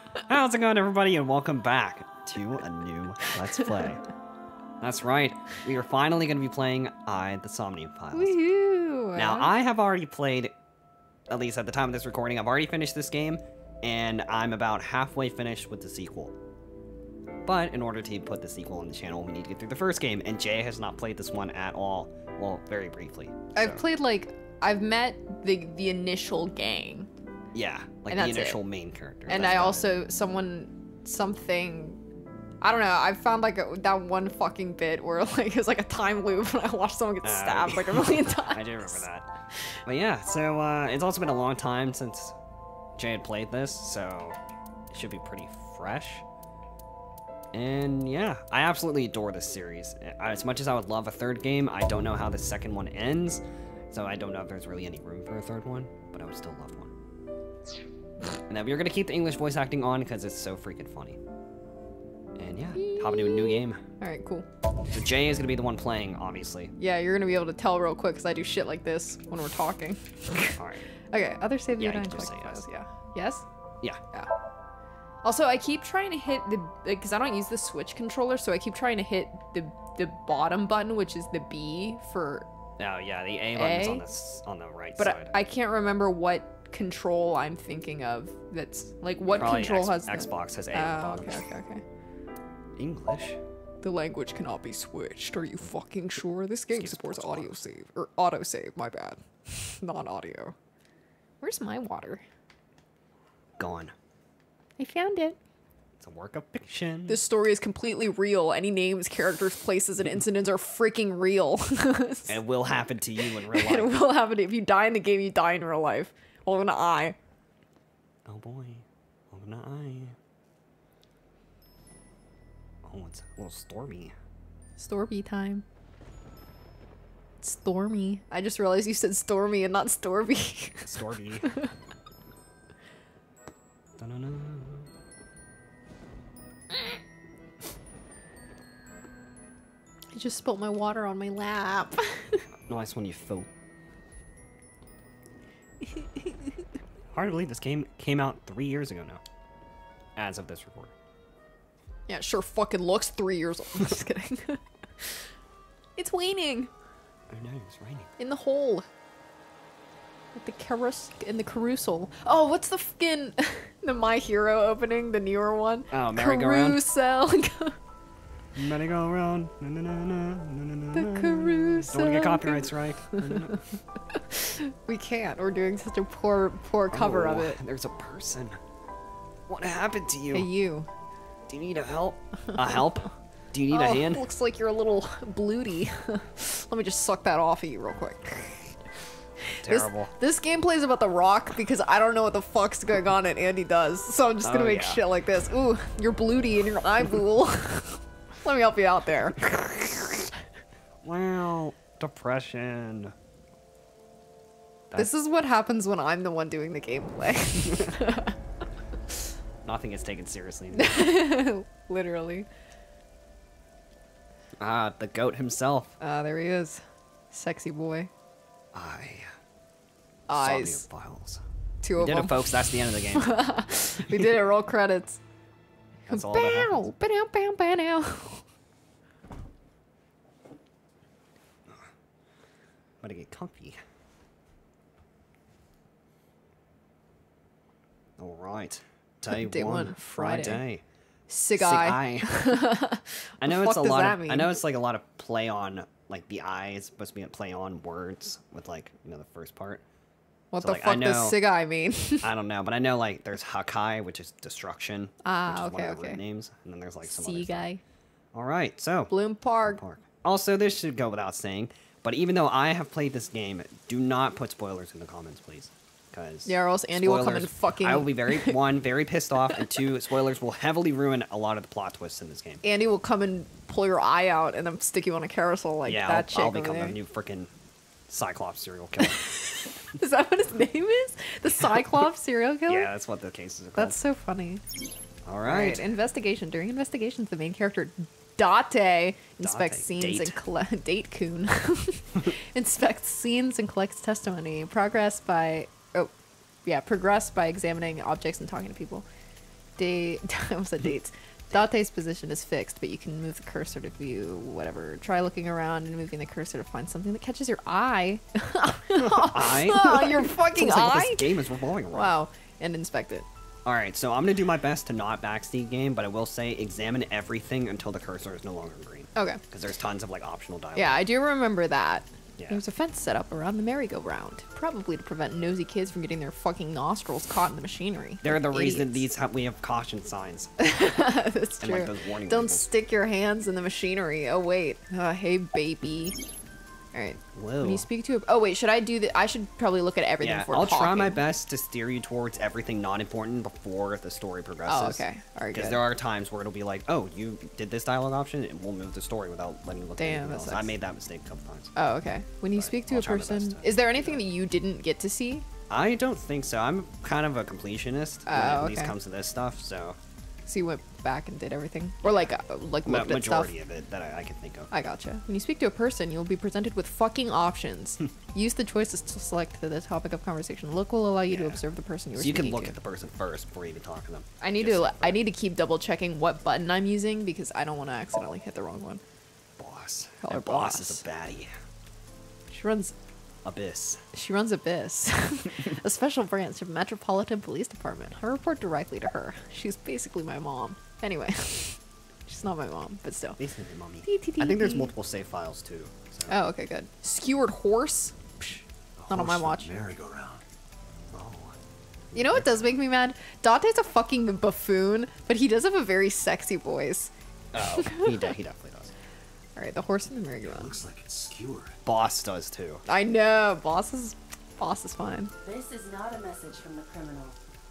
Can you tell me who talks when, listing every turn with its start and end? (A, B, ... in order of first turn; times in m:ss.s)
0:00.3-0:04.0 A
0:04.8-0:08.4 A
0:08.1-0:09.5 B
0:09.1-0:10.5 A
0:11.3-0:16.3 A
0:17.4-0:23.8 A
0:23.5-0:27.1 B
0:27.5-0:29.9 A
0:28.1-0:28.6 B
0:29.2-0:32.0 B
0:32.6-0:39.0 B
0:37.2-0:39.3 A
0:39.8-0:42.4 A
0:43.0-0:44.4 A
0:44.9-0:46.2 A
0:47.5-0:56.9 A
0:58.2-1:01.2 A
1:02.4-1:03.8 A
1:02.7-1:04.4 B
1:04.9-1:06.7 A
1:06.8-1:13.4 B
1:10.6-1:10.8 A
1:11.8-1:12.6 A
1:15.2-1:22.5 B
1:22.8-1:25.3 A
1:23.5-1:24.0 B
1:25.0-1:31.8 B
1:29.3-1:31.4 A
1:32.8-1:33.4 A
1:33.8-1:40.5 B
1:36.7-1:37.6 A
1:41.4-1:42.2 B
1:43.6-1:43.9 A
1:44.8-1:45.4 B
1:46.0-1:47.2 A
1:47.1-1:52.4 B
1:52.3-1:53.9 A
1:53.2-1:57.2 B
1:58.2-2:00.2 A
2:02.8-2:04.1 A
2:04.8-2:05.6 B
2:07.4-2:11.7 B
2:10.9-2:11.5 A
2:14.0-2:14.9 A
2:20.1-2:22.4 B
2:22.7-2:23.5 A
2:25.8-2:26.5 B
2:27.1-2:29.2 A
2:30.2-2:30.9 A
2:32.1-2:35.3 B
2:36.0-2:36.7 B
2:37.3-2:38.1 A
2:38.2-2:38.8 B
2:40.3-2:47.8 B
2:45.9-2:46.8 A
2:48.5-2:53.6 A
2:50.9-2:53.6 B
2:54.1-2:57.6 B
2:56.9-2:58.6 A
2:59.5-3:00.5 A
3:00.3-3:00.9 B
3:01.4-3:04.2 A
3:03.7-3:08.8 B
3:09.4-3:20.3 B
3:09.6-3:10.1 A
3:14.4-3:15.0 A
3:21.0-3:23.1 A
3:24.9-3:28.3 B
3:29.6-3:30.9 A
3:30.7-3:32.5 B
3:34.6-3:36.0 A
3:36.0-3:38.1 B
3:38.7-3:39.3 A
3:40.3-3:40.8 B
3:40.3-3:41.4 A
3:41.8-3:45.2 B
3:42.0-3:43.4 A
3:46.1-3:46.8 A
3:46.1-3:48.4 B
3:53.0-3:53.8 A
3:58.2-4:00.8 A
3:59.3-4:00.6 B
4:01.3-4:04.5 B
4:01.5-4:02.5 A
4:03.4-4:09.8 A
4:10.5-4:12.3 B
4:10.6-4:11.4 A
4:12.2-4:17.6 A
4:15.2-4:16.2 B
4:17.0-4:17.8 B
4:18.3-4:32.6 A
4:19.1-4:19.8 B
4:26.4-4:28.6 B
4:32.6-4:37.0 B
4:35.8-4:37.5 A
4:38.1-4:39.2 A
4:39.0-4:42.9 B
4:42.7-4:44.0 A
4:43.7-4:44.6 B
4:45.2-4:45.8 A
4:45.4-4:56.1 B
4:49.4-4:50.4 A
4:56.6-4:59.0 B
4:59.8-5:11.3 B
5:08.9-5:12.1 A
5:11.9-5:13.2 B
5:13.6-5:21.0 A
5:19.1-5:19.4 B
5:20.7-5:29.1 B
5:28.2-5:30.5 A
5:30.6-5:36.2 B
5:31.6-5:32.7 A
5:36.9-5:41.2 B
5:37.3-5:37.9 A
5:40.2-5:45.0 A
5:44.7-5:45.8 B
5:45.5-5:51.7 A
5:50.0-5:50.7 B
5:51.7-5:55.4 B
5:52.6-5:54.2 A
5:55.7-6:00.0 A
5:58.3-5:58.9 B
6:00.5-6:03.5 B
6:02.8-6:04.7 A
6:04.7-6:12.8 B
6:11.3-6:11.6 A
6:12.1-6:15.2 A
6:14.4-6:19.0 B
6:19.6-6:21.5 A
6:20.2-6:21.0 B
6:22.5-6:22.9 B
6:23.4-6:24.0 A
6:24.1-6:33.4 B
6:33.4-6:36.3 A
6:34.0-6:34.9 B
6:36.3-6:39.7 B
6:39.0-6:40.4 C
6:41.1-6:41.6 A
6:42.1-6:42.4 A
6:42.1-6:48.2 B
6:47.5-6:48.9 A
6:49.6-6:50.7 B
6:50.4-6:51.8 C
6:51.8-6:52.8 A
6:52.8-6:55.3 B
6:55.4-6:57.4 D